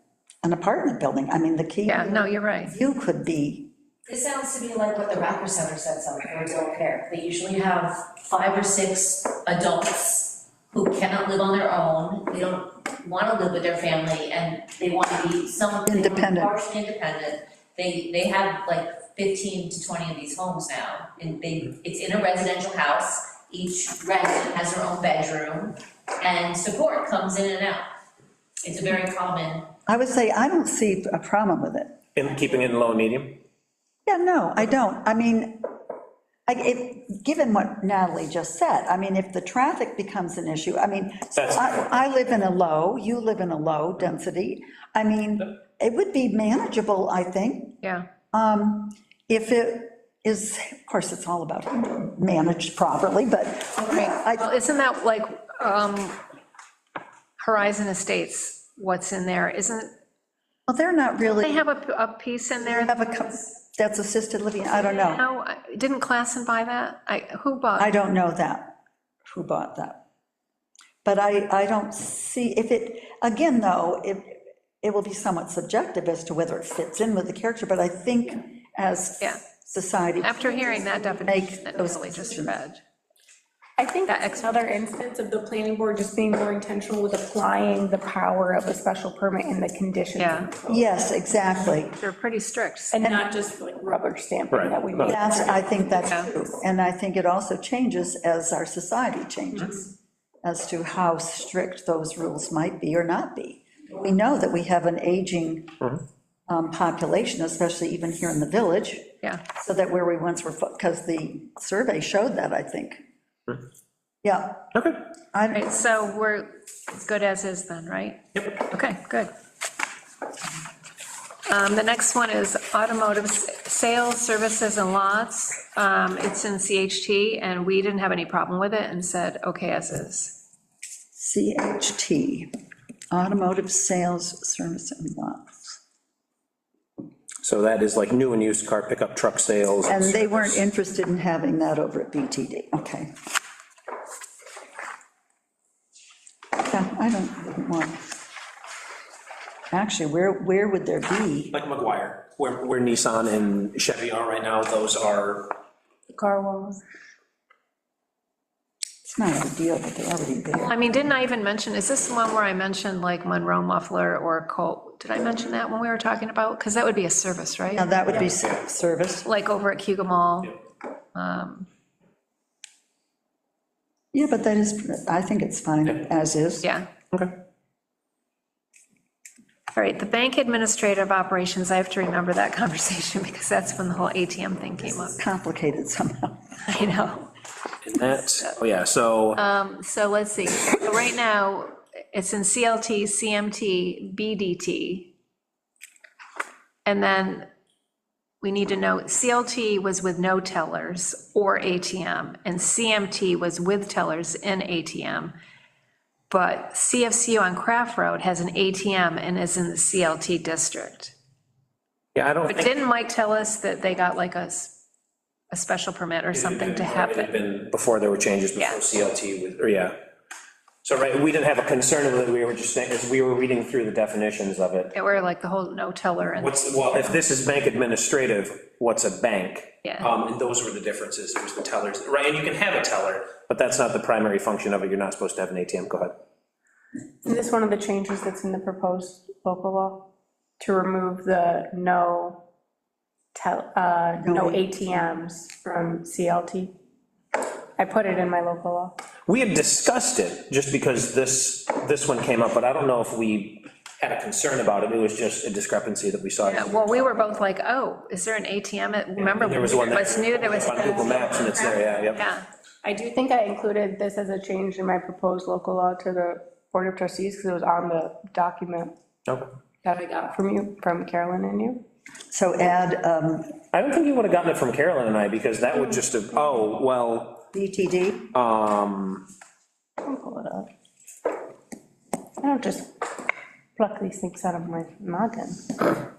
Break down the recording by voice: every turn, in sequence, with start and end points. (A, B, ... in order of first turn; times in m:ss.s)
0:00.4-0:03.7 A
0:01.9-0:02.7 B
0:04.1-0:27.8 C
0:15.9-0:16.5 A
0:28.6-0:29.7 C
0:29.9-0:32.0 A
0:32.1-0:33.4 D
0:34.0-0:35.7 A
0:36.5-0:47.8 A
0:41.4-0:41.7 D
0:48.3-0:54.5 A
0:53.9-0:56.2 B
0:57.4-0:59.9 B
1:00.7-1:01.6 A
1:01.4-1:03.0 B
1:02.6-1:05.2 A
1:04.7-1:07.9 B
1:07.8-1:08.7 A
1:09.3-1:10.0 A
1:11.0-1:22.6 A
1:20.2-1:22.8 B
1:23.8-1:30.6 E
1:24.0-1:24.4 B
1:30.2-1:30.5 B
1:30.6-1:32.0 A
1:31.9-1:33.0 B
1:32.9-1:35.5 E
1:34.5-1:35.2 D
1:35.0-1:39.9 A
1:40.4-1:45.8 A
1:46.5-1:53.0 A
1:54.2-1:54.7 A
1:54.7-1:55.0 D
1:55.3-1:55.6 A
1:55.5-1:59.3 B
2:01.4-2:10.4 B
2:11.1-2:12.5 A
2:13.1-2:15.8 A
2:17.4-2:20.6 D
2:19.9-2:23.1 A
2:26.6-2:28.0 A
2:29.7-2:31.5 A
2:31.5-2:35.6 D
2:36.1-2:36.8 E
2:39.0-2:40.9 A
2:40.5-2:47.9 B
2:47.7-2:49.3 A
2:49.2-2:50.6 B
2:51.1-2:51.7 B
2:54.1-2:56.7 A
2:59.7-3:05.2 B
3:05.1-3:06.4 A
3:06.6-3:07.3 B
3:07.8-3:09.4 D
3:09.4-3:15.1 B
3:16.8-3:17.5 B
3:18.4-3:25.3 B
3:26.3-3:31.1 B
3:32.1-3:32.7 D
3:32.5-3:34.8 B
3:35.5-3:37.3 B
3:36.3-3:40.0 D
3:40.8-3:44.9 D
3:44.9-3:47.2 B
3:46.4-3:56.2 D
3:57.2-4:00.1 E
4:00.6-4:02.4 E
4:03.3-4:06.8 E
4:04.2-4:04.7 A
4:07.8-4:09.0 E
4:09.2-4:17.1 D
4:16.4-4:22.4 B
4:19.2-4:22.2 D
4:20.6-4:21.9 E
4:22.8-4:29.0 E
4:29.8-4:31.8 E
4:32.3-4:33.5 A
4:33.7-4:37.4 D
4:37.5-4:38.3 A
4:38.3-4:39.2 D
4:40.0-4:40.7 E
4:42.4-4:43.1 E
4:43.8-4:45.7 E